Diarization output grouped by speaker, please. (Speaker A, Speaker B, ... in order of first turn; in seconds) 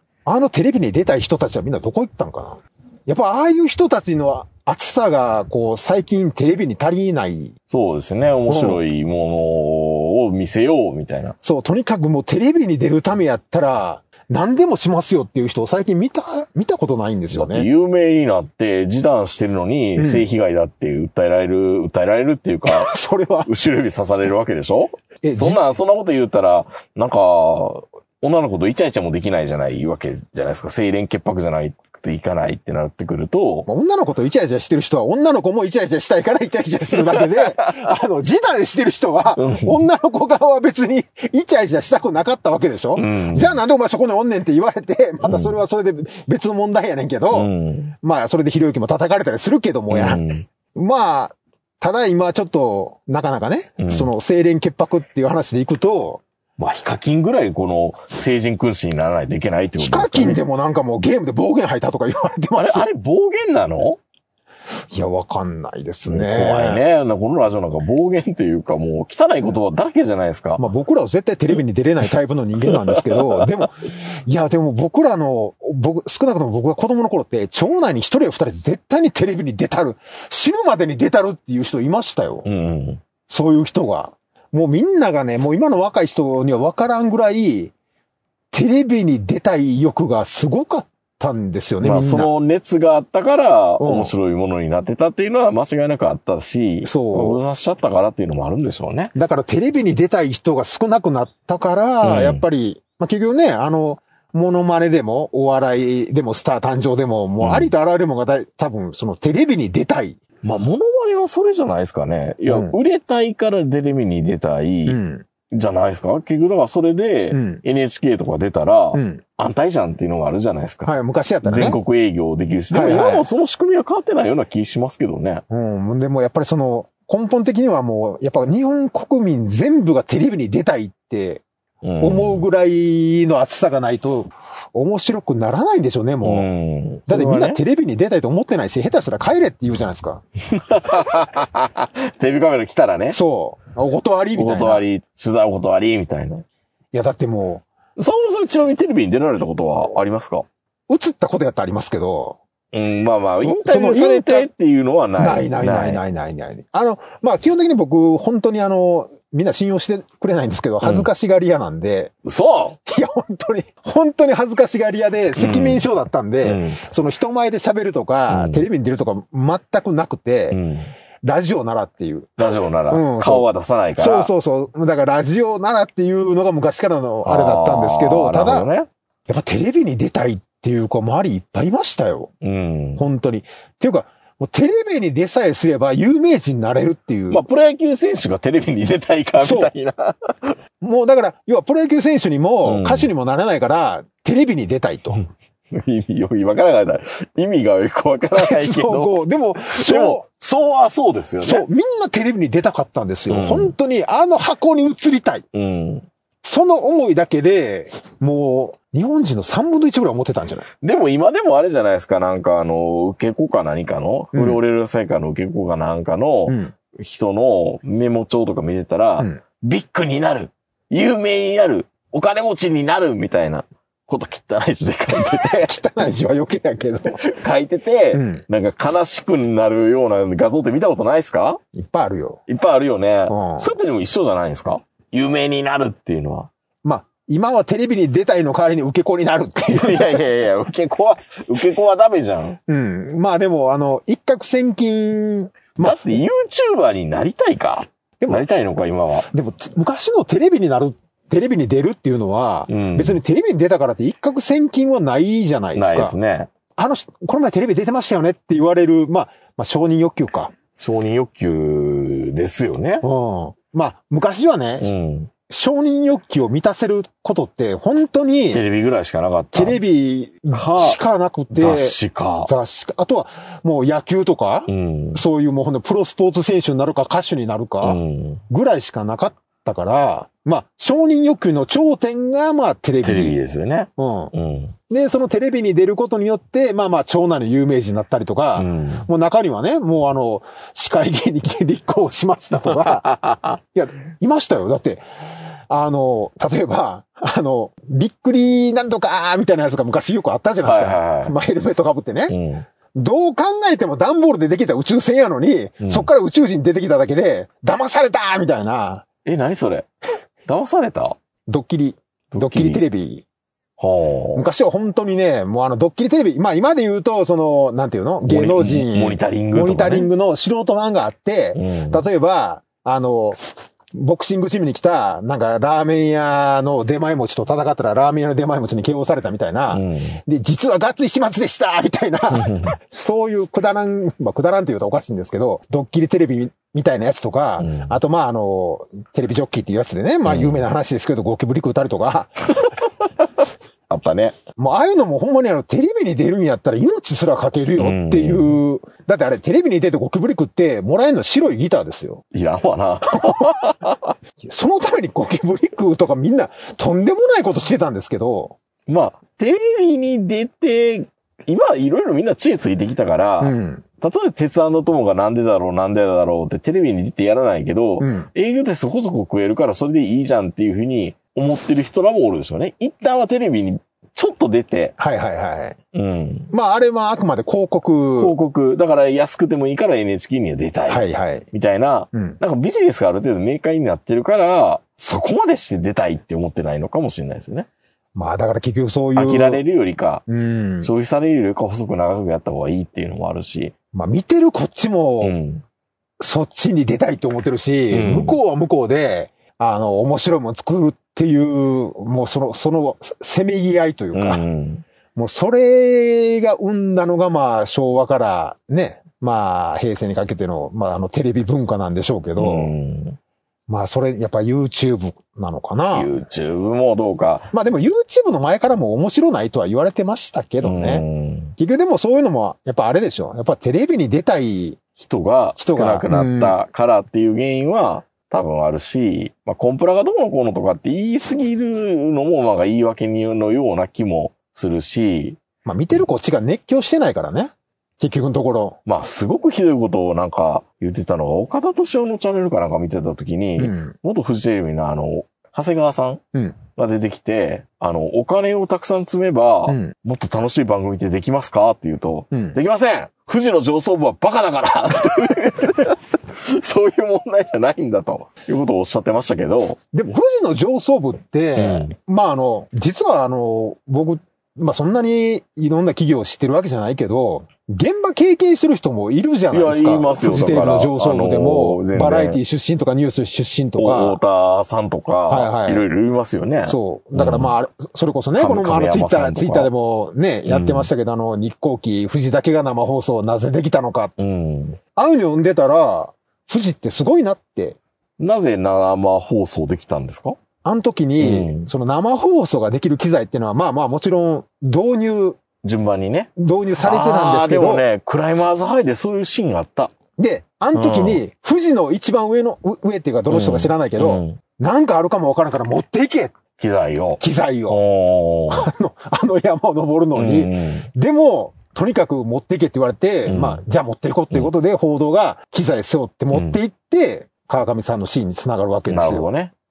Speaker A: 0.2-7.5, 8.5-8.8, 11.4-17.7, 20.0-20.2, 22.6-23.5, 25.2-25.6, 33.7-47.5, 48.0-56.2, 59.8-62.8, 64.9-66.8, 70.6-82.5, 83.3-87.7, 88.5-92.3, 93.8-94.1, 96.8-97.4, 99.1-110.2, 112.5-112.8, 114.9-115.2, 117.3-117.6, 118.9-119.2, 120.8-121.8, 122.7-123.3, 125.5-131.4, 132.0-136.5, 137.1-140.2, 143.1-144.8, 146.9-147.6, 150.9-152.4, 153.4-154.5, 155.2-162.1, 162.8-170.6, 171.2-173.4, 174.0-178.7, 179.3-182.3, 183.0-187.4, 189.3-189.7, 190.8-195.2, 198.3-200.2, 201.4-205.4, 206.4-210.7, 214.3-214.6, 216.5-216.7, 225.2-227.2, 228.1-228.4, 231.7-232.4, 233.3-233.7, 236.8-240.2, 242.7-246.1, 249.3-256.1, 256.8-260.5, 263.0-264.9, 265.5-268.6, 269.5-283.4, 284.0-284.3, 284.9-293.1, 293.6-295.0, 295.7-302.4, 302.9-309.0, 311.5-313.2, 314.3-323.4, 323.9-342.4, 344.6-352.2, 354.4-358.6, 363.4-363.8, 368.0-368.3, 375.0-375.8, 376.5-378.3, 380.9-381.5, 382.1-382.4, 388.1-389.6, 390.3-390.9, 393.9-395.3, 396.2-404.4, 405.1-412.7, 413.7-416.1, 417.5-421.0, 421.6-424.8, 425.6-426.6, 435.6-438.8, 443.6-443.9, 449.7-449.9, 452.3-452.6, 459.9-474.2, 475.3-475.8, 476.6-484.1, 484.9-487.8, 490.6-495.4, 496.4-497.8, 500.2-506.3, 507.2-507.8, 508.5-519.3
Speaker B: 7.7-11.3, 17.3-22.9, 23.4-33.7, 36.9-37.9, 39.4-39.8, 43.0-43.6, 45.2-45.5, 47.3-47.9, 49.9-50.4, 53.8-54.1, 56.6-60.4, 62.5-64.0, 66.0-70.6, 72.7-73.4, 82.4-83.0, 91.8-99.1, 102.0-102.4, 107.4-107.7, 110.4-120.9, 121.4-125.4, 131.8-132.5, 136.2-137.6, 140.5-143.2, 144.3-146.4, 148.0-150.4, 152.7-156.0, 160.8-161.1, 162.2-162.8, 165.4-165.8, 166.4-166.8, 168.3-168.6, 170.5-170.9, 172.4-174.3, 177.2-178.9, 182.4-183.0, 187.3-190.6, 192.6-193.1, 195.1-199.2, 199.7-201.7, 203.3-203.7, 205.5-206.1, 210.8-225.7, 227.2-231.6, 232.5-236.5, 239.7-242.6, 245.8-249.3, 252.7-253.2, 255.7-256.5, 260.8-263.0, 264.8-265.3, 268.5-269.8, 270.5-271.0, 271.5-272.5, 274.7-275.2, 277.8-278.4, 283.0-284.7, 288.6-289.1, 292.7-293.6, 300.6-301.3, 302.3-302.7, 305.8-306.1, 309.2-309.9, 310.4-311.2, 312.3-312.8, 313.8-314.4, 318.2-320.1, 321.5-322.0, 329.7-330.2, 332.3-332.7, 337.6-337.9, 340.2-340.6, 342.6-342.9, 343.9-344.4, 347.8-348.6, 352.3-354.1, 358.9-374.9, 375.9-376.5, 378.2-387.7, 389.1-390.2, 390.8-393.7, 395.2-395.6, 397.9-398.4, 404.1-404.9, 412.4-413.2, 415.9-417.5, 420.6-421.6, 425.0-435.4, 438.9-446.2, 446.7-459.8, 461.6-461.9, 469.5-472.4, 473.8-477.5, 478.4-479.7, 480.5-480.9, 484.2-484.8, 488.2-490.4, 491.2-491.7, 495.6-499.9, 500.7-501.2, 503.3-504.4, 506.6-508.7, 510.1-510.9, 513.2-513.6, 516.3-516.6, 518.9-519.5